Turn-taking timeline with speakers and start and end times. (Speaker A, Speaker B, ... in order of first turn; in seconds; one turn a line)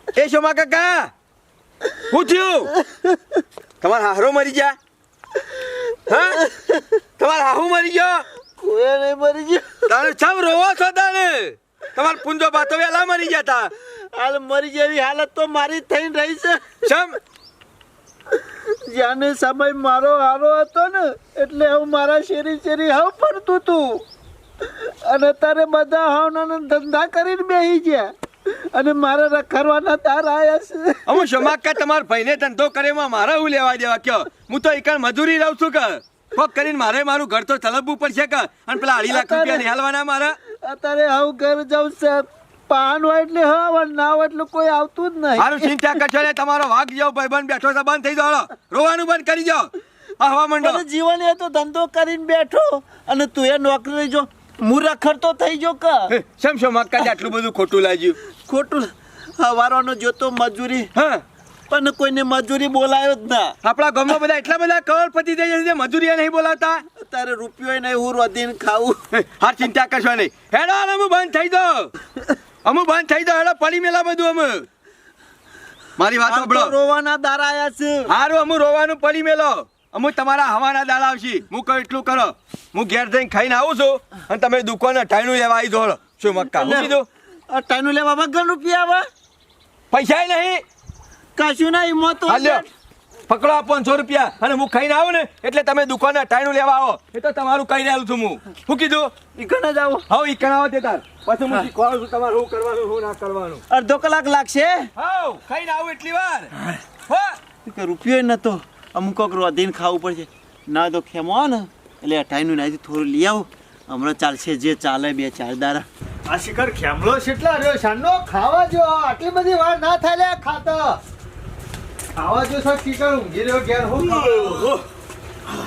Speaker A: 0.1-1.1
Speaker A: 2.1-2.7
Speaker A: 3.8-4.8
Speaker A: 6.1-6.4
Speaker B: 6.5-6.8
Speaker A: 7.2-8.2
Speaker B: 8.6-10.0
Speaker A: 9.9-13.7
Speaker B: 13.8-16.8
Speaker A: 16.9-17.2
Speaker B: 18.3-24.0
Speaker B: 24.6-31.5
Speaker A: 31.1-40.4
Speaker B: 38.9-39.7
Speaker B: 40.4-45.7
Speaker A: 45.4-50.8
Speaker B: 50.6-56.1
Speaker A: 56.1-58.2
Speaker B: 58.4-60.9
Speaker A: 61.0-61.2
Speaker B: 61.7-63.6
Speaker A: 63.6-66.8
Speaker B: 66.9-69.0
Speaker A: 69.1-71.9
Speaker A: 72.6-74.7
Speaker A: 76.0-76.7
Speaker B: 76.2-78.1
Speaker A: 78.1-87.1
Speaker B: 86.4-87.0
Speaker B: 87.5-89.1
Speaker A: 89.9-90.6
Speaker B: 91.4-92.7
Speaker A: 92.3-92.6
Speaker A: 93.3-99.2
Speaker B: 99.3-100.0
Speaker A: 100.1-103.6
Speaker B: 103.7-104.9
Speaker A: 105.0-106.5
Speaker A: 107.1-107.4
Speaker B: 107.7-115.9
Speaker C: 116.3-121.0
Speaker C: 122.2-124.4
Speaker A: 124.0-124.8